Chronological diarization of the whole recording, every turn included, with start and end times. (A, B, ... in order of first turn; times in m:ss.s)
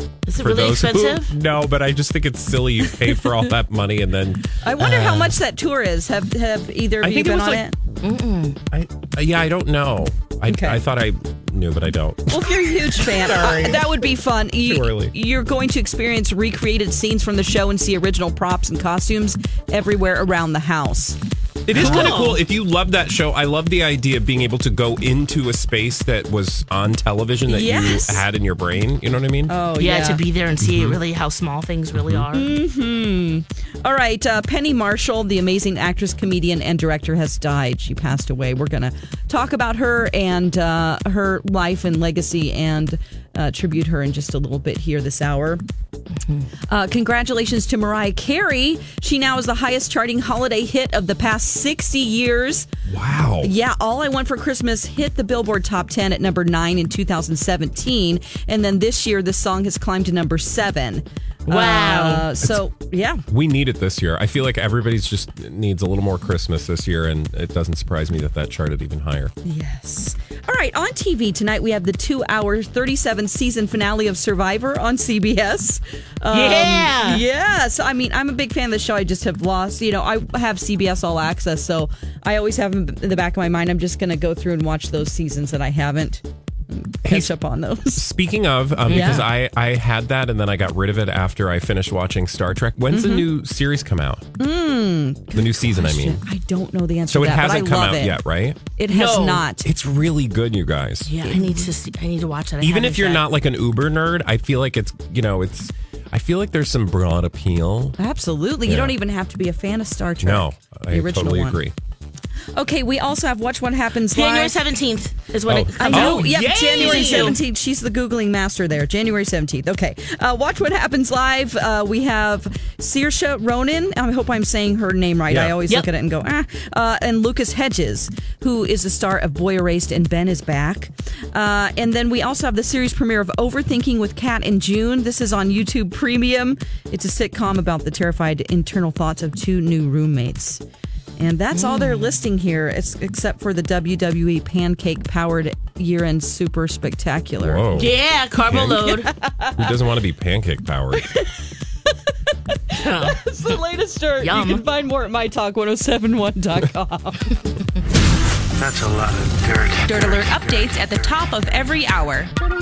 0:00.2-0:01.3 A
0:00.4-0:05.3 B
0:04.6-0:07.8 C
0:07.0-0:07.6 B
0:08.0-0:08.6 A
0:08.7-0:15.1 B
0:10.4-0:10.8 C
0:12.3-0:21.2 C
0:21.6-0:29.6 B
0:21.7-0:22.4 A
0:21.7-0:22.3 C
0:27.5-0:28.2 C
0:29.4-0:30.2 C
0:29.8-0:32.5 A
0:30.6-0:31.0 B
0:32.0-0:32.3 B
0:32.3-0:45.6 C
0:46.7-0:52.7 C
0:52.8-0:53.5 B
0:53.4-1:03.2 C
1:01.5-1:02.3 A
1:03.3-1:09.3 B
1:09.4-1:28.0 C
1:16.3-1:17.2 A
1:27.0-1:27.3 B
1:27.9-1:34.2 B
1:28.9-1:29.3 A
1:28.9-1:29.3 C
1:32.9-1:33.3 C
1:34.4-1:39.7 C
1:35.3-1:36.2 B
1:37.1-1:38.6 B
1:38.9-1:39.4 A
1:39.6-1:41.4 B
1:41.1-1:43.2 A
1:42.6-1:48.0 B
1:48.0-1:51.6 C
1:48.6-1:48.9 B
1:50.2-1:51.7 B
1:52.5-1:54.6 C
1:54.0-1:57.4 A
1:55.4-1:57.4 B
1:55.8-2:20.6 C
2:05.3-2:05.6 B
2:21.2-2:27.7 C
2:21.5-2:22.0 A
2:27.4-2:28.8 B
2:27.7-2:29.1 A
2:28.8-2:29.8 C
2:29.6-2:31.2 B
2:31.0-2:31.3 C
2:32.5-2:37.3 C
2:32.7-2:33.6 A
2:34.2-2:34.6 A
2:38.6-2:41.8 D
2:39.8-2:42.3 E